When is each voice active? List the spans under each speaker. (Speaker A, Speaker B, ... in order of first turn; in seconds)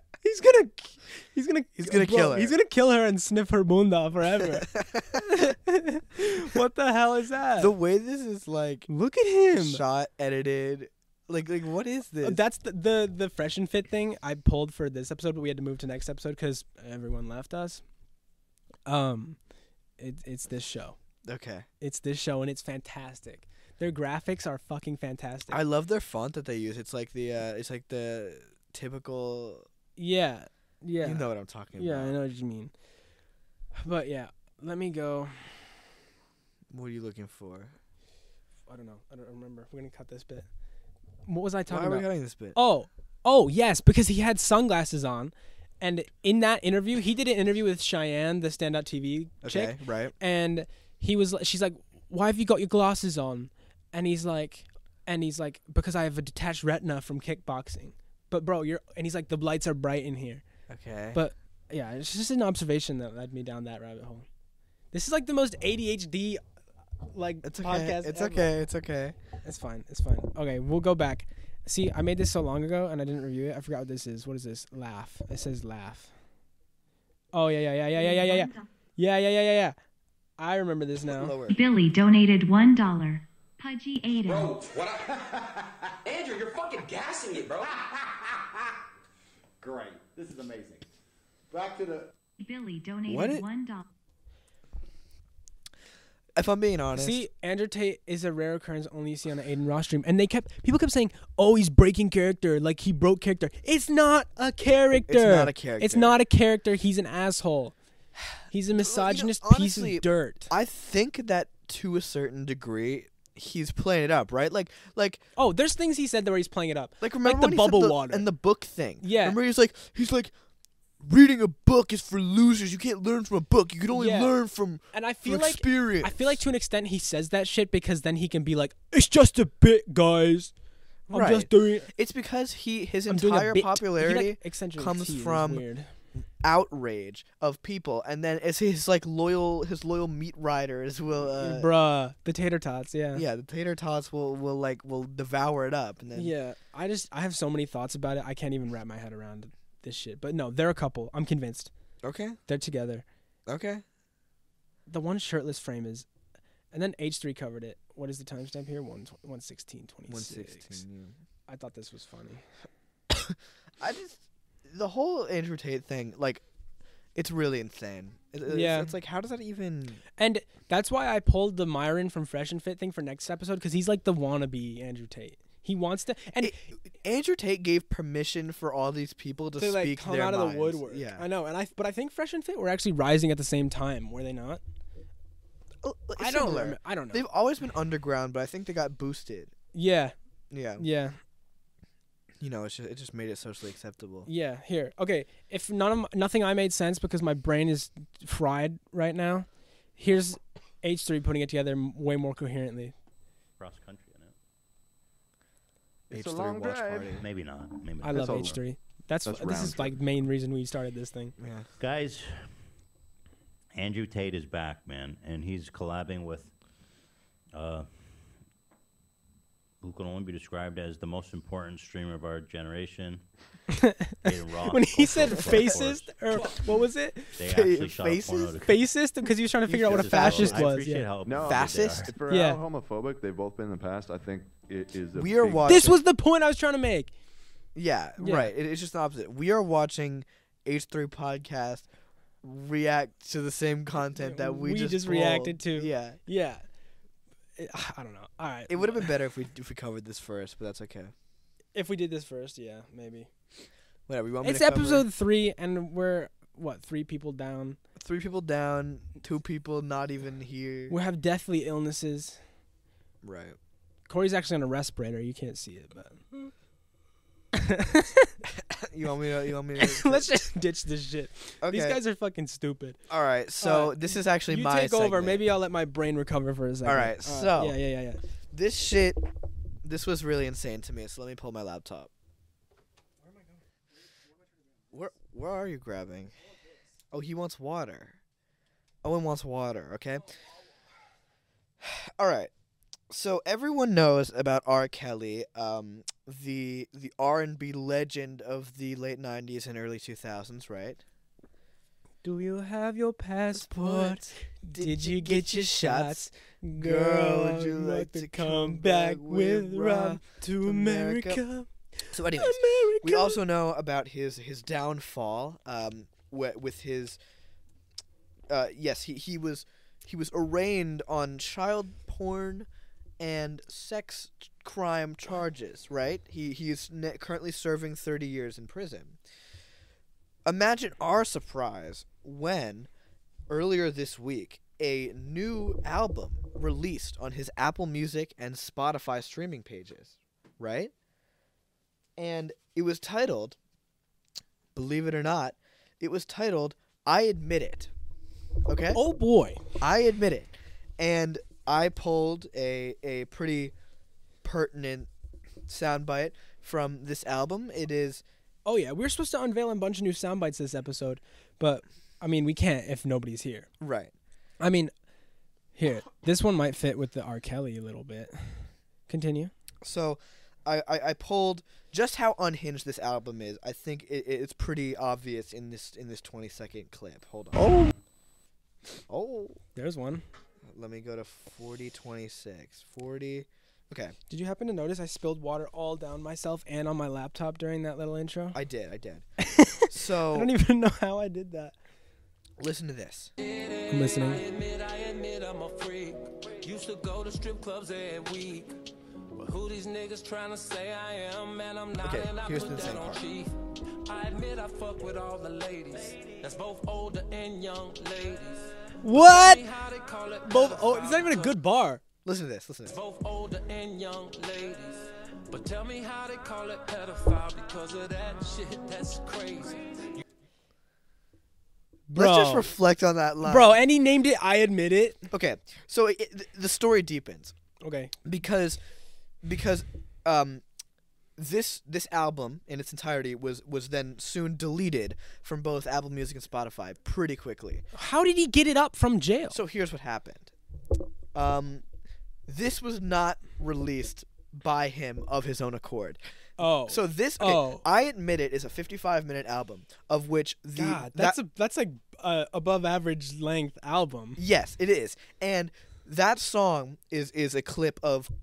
Speaker A: 0.2-7.7, 8.9-9.8, 12.2-17.8, 18.9-19.4, 20.0-21.0, 21.8-25.6, 30.0-32.7, 33.8-35.6, 38.7-40.5, 41.3-60.4, 61.1-64.2, 64.9-66.4, 67.1-68.5, 69.4-76.1, 77.3-79.8, 80.4-81.3, 96.9-107.7, 108.5-110.5, 115.4-118.3, 119.0-119.4, 123.9-124.3, 124.9-130.5, 131.1-131.9, 133.1-135.9, 141.3-143.2, 146.1-151.7, 152.5-153.0, 154.9-156.1, 156.7-160.8, 161.5-162.4, 168.4-168.9, 170.2-176.6, 179.6-184.6, 186.2-187.2, 189.7-190.1, 190.8-191.2, 194.2-202.9, 208.0-211.3, 223.7-227.3, 228.6-231.1, 232.3-232.6, 235.7-237.1, 238.2-238.5, 244.2-246.6, 247.6-249.1, 251.7-253.3, 254.4-257.8, 260.9-262.4, 264.1-266.2, 267.5-268.3, 269.8-273.0, 273.6-278.2, 302.2-313.4, 348.9-349.6, 358.6-363.7, 364.6-364.9, 365.8-369.5, 379.7-380.2, 384.3-388.6, 389.4-391.7, 393.9-394.4, 409.0-409.6, 410.4-412.0, 422.1-422.7, 423.4-425.2, 427.8-428.1, 437.9-439.6, 446.6-447.8, 450.7-454.4
Speaker B: 1.8-2.5, 4.6-5.2, 7.6-8.9, 9.5-12.4, 21.2-21.7, 25.5-29.7, 31.0-32.1, 36.7-37.7, 41.7-42.6, 49.4-50.1, 60.7-61.2, 67.4-69.2, 81.0-81.6, 93.1-93.4, 96.3-97.2, 105.1-106.2, 108.7-115.2, 117.0-120.3, 121.0-126.4, 131.1-135.6, 136.2-141.7, 143.1-146.3, 152.0-152.4, 153.4-153.8, 160.1-161.2, 163.1-166.4, 167.1-170.0, 176.4-181.3, 185.8-189.5, 190.5-190.9, 192.4-194.3, 206.1-207.2, 211.4-211.7, 227.4-228.6, 229.7-230.8, 231.4-232.1, 235.1-236.0, 237.7-241.9, 242.4-246.2, 248.7-251.1, 254.1-255.1, 258.0-260.9, 263.2-263.6, 268.6-270.3, 271.6-272.0, 273.1-275.4, 276.8-277.8, 278.5-279.2, 279.8-282.1, 284.9-286.3, 287.1-288.2, 289.0-290.3, 291.8-292.5, 293.1-301.0, 303.5-311.4, 312.1-317.2, 318.5-322.7, 323.2-329.2, 330.4-332.9, 333.5-340.9, 342.2-343.6, 344.7-347.9, 348.7-349.0, 349.8-353.7, 354.4-355.1, 355.7-358.2, 363.8-364.1, 369.8-377.9, 379.1-379.6, 380.6-384.1, 388.5-389.2, 389.9-390.5, 392.6-393.3, 402.0-403.2, 412.2-412.9, 422.1-423.8, 425.3-427.5, 428.2-428.8, 429.4-430.6, 431.4-437.9, 439.5-440.5, 441.3-441.8, 442.5-446.2, 446.9-451.4, 454.4-458.3
Speaker C: 78.0-78.7, 81.5-84.6, 92.4-93.8
Speaker D: 84.2-85.8, 87.5-88.4, 89.6-90.9, 91.5-92.1
Speaker E: 84.3-85.0, 86.0-87.7
Speaker F: 203.6-204.3, 207.2-208.5, 211.8-212.5, 213.7-216.5, 217.5-218.3, 219.8-223.2, 224.2-226.4, 227.3-228.8, 229.7-232.1
Speaker G: 206.1-207.2, 208.1-208.6, 209.2-210.0, 231.2-235.9
Speaker H: 393.4-398.7, 399.3-403.5, 404.0-411.6, 412.9-419.8